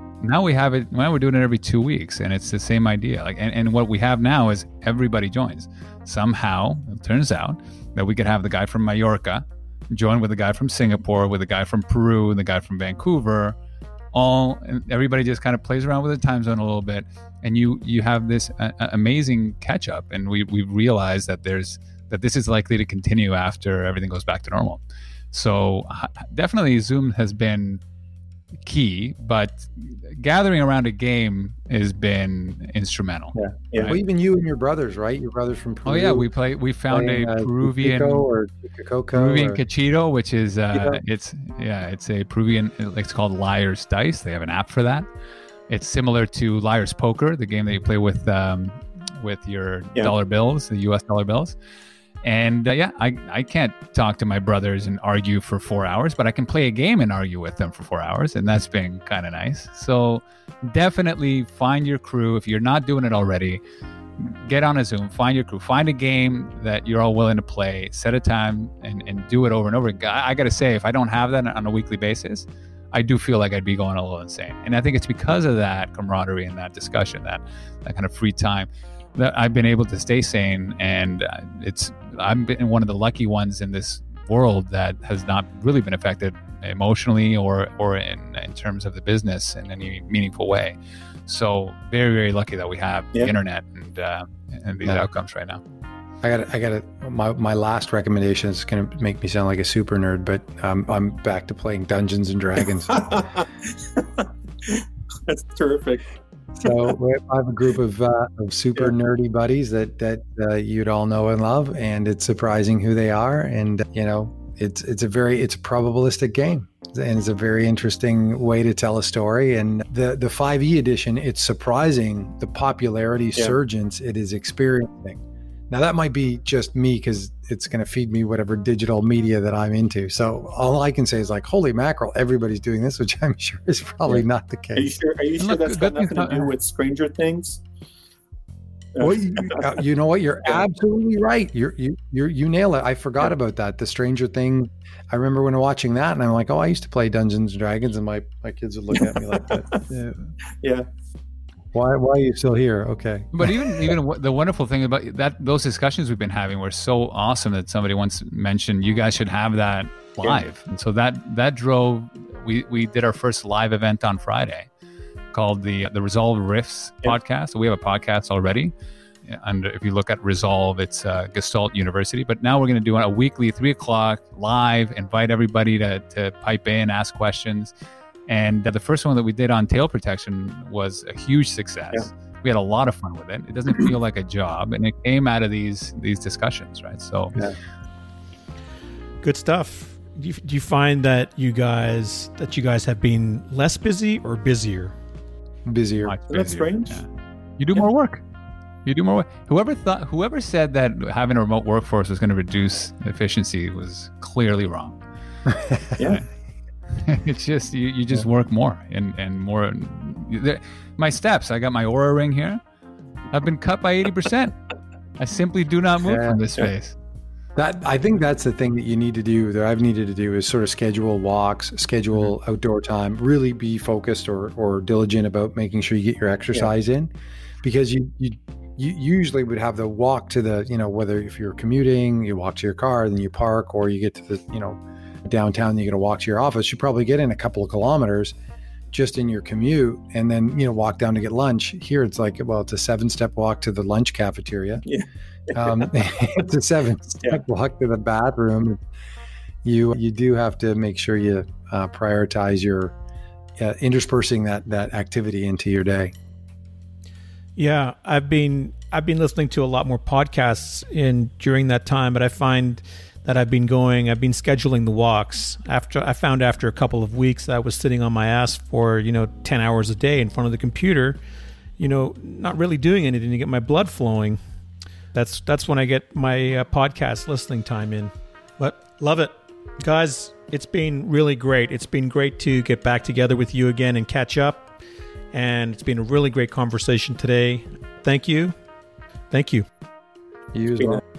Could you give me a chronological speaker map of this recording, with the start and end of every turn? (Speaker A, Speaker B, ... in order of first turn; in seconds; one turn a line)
Speaker A: 0.2-13.6
Speaker A: 14.1-27.8
Speaker A: 28.6-34.0
Speaker B: 33.4-36.3
Speaker A: 35.9-38.3
Speaker B: 36.9-39.6
Speaker A: 39.1-45.1
Speaker A: 45.7-51.6
Speaker A: 52.2-63.6
Speaker A: 64.2-95.6
Speaker B: 96.2-103.3
Speaker C: 102.9-106.1
Speaker B: 106.6-125.2
Speaker B: 125.7-135.0
Speaker C: 134.1-137.6
Speaker A: 135.4-136.5
Speaker C: 139.0-139.8
Speaker B: 139.0-150.3
Speaker C: 149.0-149.8
Speaker C: 150.6-150.9
Speaker B: 151.7-153.5
Speaker A: 153.3-164.7
Speaker A: 165.3-168.7
Speaker A: 169.3-177.7
Speaker A: 178.3-187.4
Speaker D: 189.2-194.9
Speaker B: 195.7-196.2
Speaker A: 196.0-198.2
Speaker C: 196.3-197.0
Speaker A: 198.8-205.0
Speaker B: 205.5-205.9
Speaker C: 206.0-206.2
Speaker A: 206.9-212.6
Speaker A: 213.3-214.6
Speaker A: 215.2-217.0
Speaker B: 216.0-216.4
Speaker B: 217.6-227.1
Speaker B: 227.6-238.3
Speaker B: 238.9-244.8
Speaker C: 244.8-245.8
Speaker B: 245.5-248.8
Speaker B: 249.6-252.9
Speaker B: 253.6-256.1
Speaker D: 257.6-271.2
Speaker D: 271.8-274.4
Speaker D: 275.1-284.7
Speaker D: 285.3-288.5
Speaker D: 289.3-289.7
Speaker B: 290.5-291.0